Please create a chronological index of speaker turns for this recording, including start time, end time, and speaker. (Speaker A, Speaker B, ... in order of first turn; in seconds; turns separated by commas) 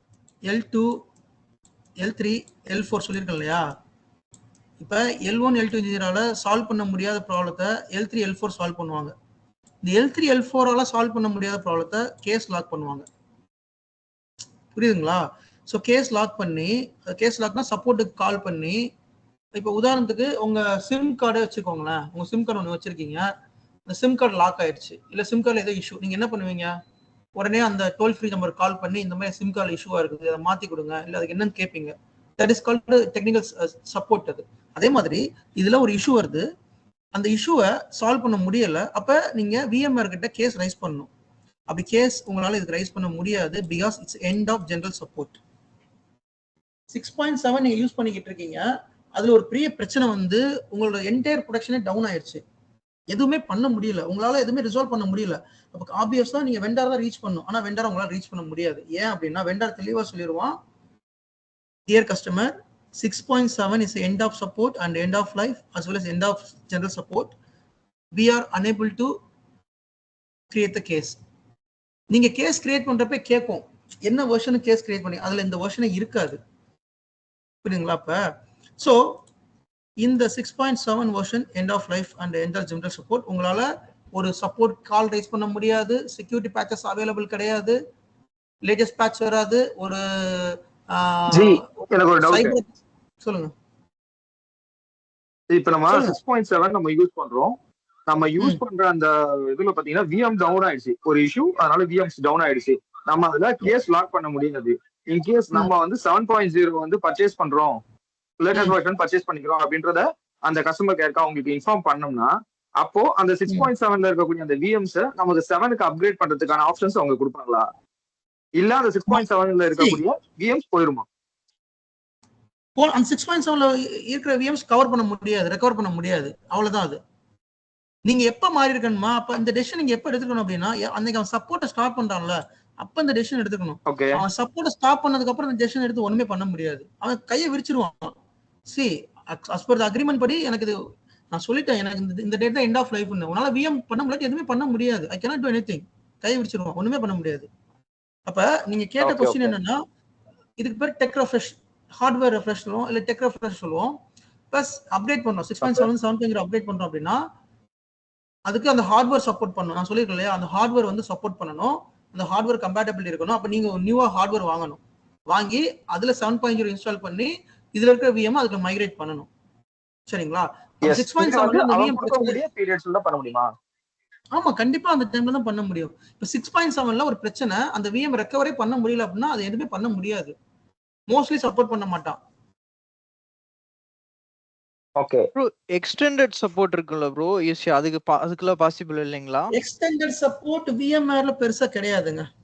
Speaker A: 0.4-1.0, Speaker A: 2.0-3.6, Speaker A: 4.8-9.1, Speaker A: 9.8-13.1, Speaker A: 14.7-18.8, Speaker A: 19.5-23.3, Speaker A: 23.9-26.8, Speaker A: 27.4-36.5, Speaker A: 37.1-41.1, Speaker A: 41.7-45.4, Speaker A: 46.9-52.4, Speaker A: 53.1-60.6, Speaker A: 61.9-67.3, Speaker A: 68.1-69.1, Speaker A: 70.5-71.2, Speaker A: 72.1-76.4, Speaker A: 77.6-78.2, Speaker A: 78.8-79.2, Speaker A: 80.0-87.8, Speaker A: 88.6-92.6, Speaker B: 91.3-92.6, Speaker A: 93.2-93.5, Speaker B: 95.5-97.6, Speaker A: 95.9-96.2, Speaker B: 98.1-107.8, Speaker B: 108.4-117.7, Speaker B: 118.6-121.1, Speaker A: 122.8-127.0, Speaker A: 128.1-138.1, Speaker B: 133.9-134.2, Speaker A: 138.7-140.8, Speaker A: 141.3-147.5, Speaker A: 148.3-149.8, Speaker B: 149.0-149.5, Speaker A: 150.6-153.9, Speaker A: 154.5-157.2, Speaker B: 155.6-155.9, Speaker A: 158.5-169.3, Speaker A: 170.1-172.4, Speaker B: 170.8-173.5, Speaker A: 174.3-180.3, Speaker A: 181.1-182.2, Speaker B: 185.0-185.3, Speaker C: 186.1-186.9, Speaker C: 187.7-189.5, Speaker A: 189.5-192.3